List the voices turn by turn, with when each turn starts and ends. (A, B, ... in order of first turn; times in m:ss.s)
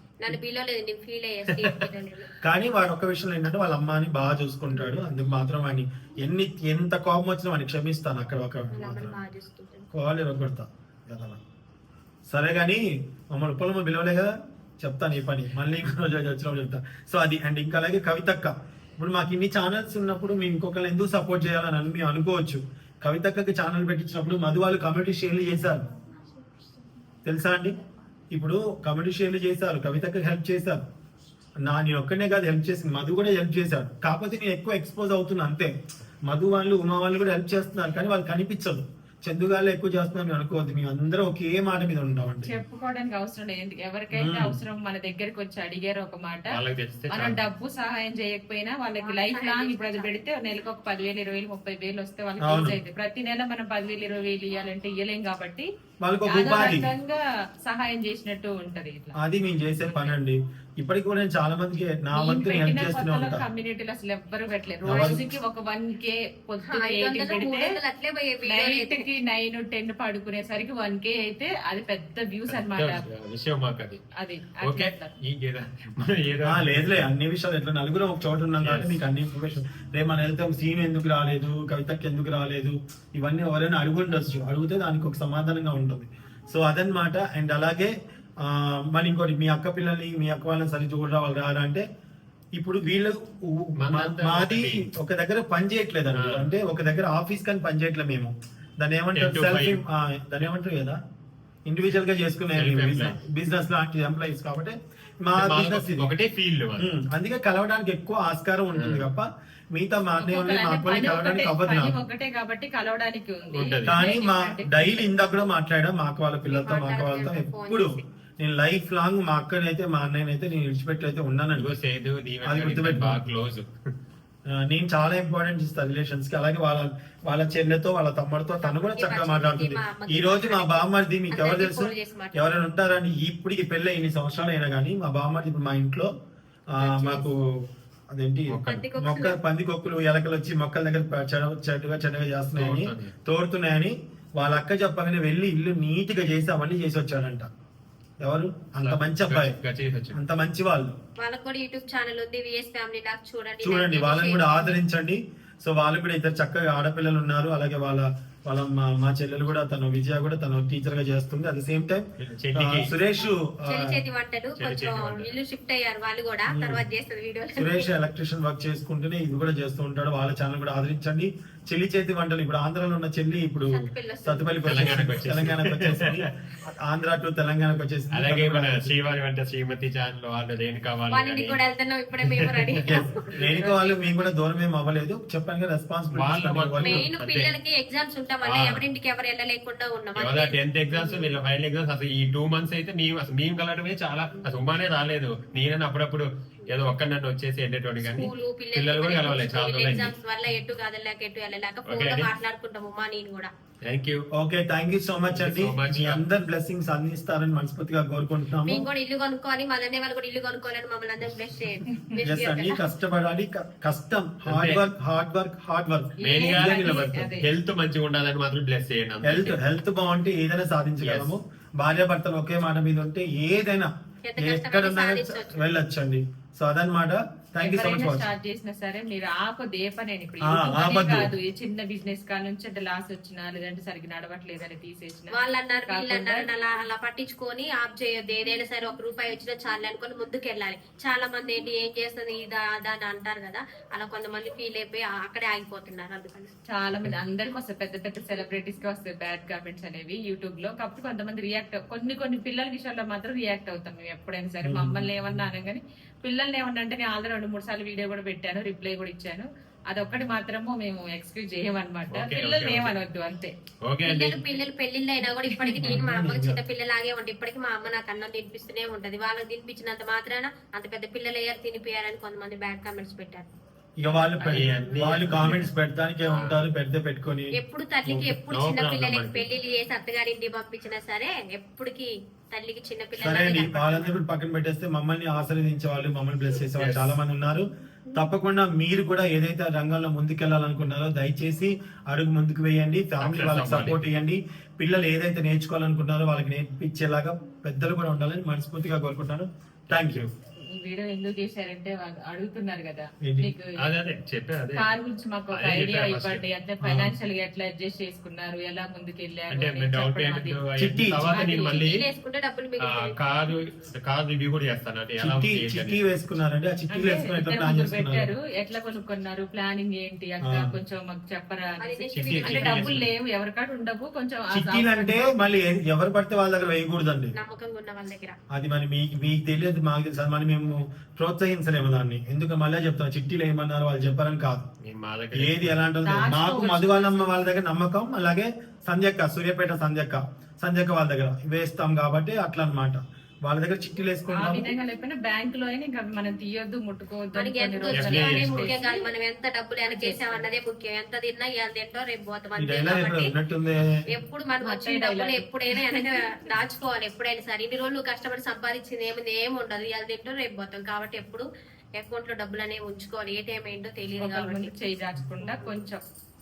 0:00.2-0:02.3 A
0:02.4-0:09.2 B
0:08.7-0:09.9 A
0:09.9-0:11.4 B
0:12.3-0:25.9 B
0:27.2-0:27.7 B
0:28.3-0:30.8 B
0:31.6-0:35.7 B
0:36.2-0:42.5 B
0:42.4-0:55.7 C
0:44.1-0:44.6 B
0:46.5-0:47.4 D
0:49.0-0:50.2 A
0:52.4-0:52.8 B
0:56.0-0:56.9 B
0:56.3-0:59.2 C
0:59.2-1:03.4 B
1:02.1-1:07.7 C
1:04.8-1:05.2 B
1:04.9-1:05.2 A
1:06.6-1:09.1 A
1:08.5-1:13.0 C
1:12.5-1:14.0 D
1:14.2-1:15.1 C
1:14.6-1:17.1 D
1:16.4-1:31.8 B
1:18.6-1:19.0 D
1:32.6-1:41.0 B
1:33.8-1:34.9 D
1:36.1-1:36.5 D
1:39.1-1:39.8 D
1:41.7-1:46.1 B
1:42.6-1:43.2 D
1:45.3-1:46.9 D
1:46.8-1:52.0 B
1:48.8-1:49.1 D
1:50.2-1:55.1 C
1:53.5-1:54.0 D
1:53.8-2:01.7 B
1:56.5-1:58.0 A
2:01.6-2:03.7 D
2:02.4-2:03.2 B
2:04.5-2:16.1 B
2:08.6-2:12.6 A
2:16.8-2:27.5 B
2:16.8-2:17.3 A
2:18.5-2:18.9 D
2:18.6-2:19.4 A
2:22.6-2:23.1 D
2:28.2-2:29.6 B
2:28.8-2:30.2 D
2:30.1-2:31.0 B
2:31.2-2:34.8 A
2:33.6-2:44.0 B
2:42.2-2:42.9 D
2:43.7-2:47.9 A
2:44.6-2:45.3 D
2:46.5-2:46.8 B
2:47.6-2:58.9 B
2:53.7-2:54.6 A
2:54.6-2:56.2 D
2:58.1-3:01.6 D
3:01.1-3:04.0 A
3:02.2-3:03.2 D
3:02.9-3:07.0 B
3:06.1-3:07.5 D
3:06.8-3:11.3 A
3:08.5-3:08.8 D
3:10.2-3:20.1 D
3:18.0-3:23.5 A
3:21.9-3:22.3 D
3:23.9-3:24.2 D
3:24.3-3:28.8 B
3:25.3-3:26.2 D
3:28.6-3:32.8 A
3:32.2-3:37.3 B
3:34.5-3:34.8 D
3:36.2-3:37.5 C
3:36.2-3:39.6 D
3:39.2-3:48.3 B
3:41.0-3:41.3 D
3:44.2-3:45.7 A
3:47.6-3:55.3 C
3:50.4-3:51.3 B
3:55.3-4:06.5 A
3:55.9-3:56.5 C
4:06.7-4:23.5 C
4:14.6-4:15.4 B
4:22.1-4:23.0 D
4:23.9-4:24.4 D
4:24.0-4:33.5 A
4:25.6-4:26.0 C
4:25.9-4:26.6 B
4:34.0-4:37.6 B
4:34.4-4:35.7 D
4:36.3-4:36.6 D
4:37.5-4:44.2 A
4:38.5-4:39.4 D
4:43.2-5:00.3 B
4:46.8-4:47.2 D
4:53.2-4:54.0 D
4:59.9-5:00.2 D
5:00.7-5:03.8 C
5:03.2-5:03.5 B
5:03.8-5:04.9 D
5:04.8-5:10.6 C
5:05.5-5:06.4 D
5:06.8-5:07.1 B
5:09.5-5:12.0 D
5:10.8-5:11.3 B
5:11.3-5:11.9 C
5:11.6-5:13.1 A
5:12.8-5:16.2 D
5:15.2-5:18.3 B
5:16.9-5:25.4 C
5:20.5-5:20.7 B
5:21.8-5:23.0 A
5:22.1-5:23.0 D
5:24.5-5:27.4 B
5:27.4-5:28.4 A
5:28.5-5:34.7 B
5:34.8-5:35.8 D
5:35.4-5:44.7 B
5:36.0-5:37.4 C
5:44.3-5:49.1 C
5:47.4-5:53.3 A
5:47.9-5:48.7 D
5:49.9-5:50.4 C
5:52.6-5:53.9 B
5:54.1-6:01.4 A
5:54.6-5:56.4 C
6:02.0-6:04.7 A
6:04.2-6:06.0 C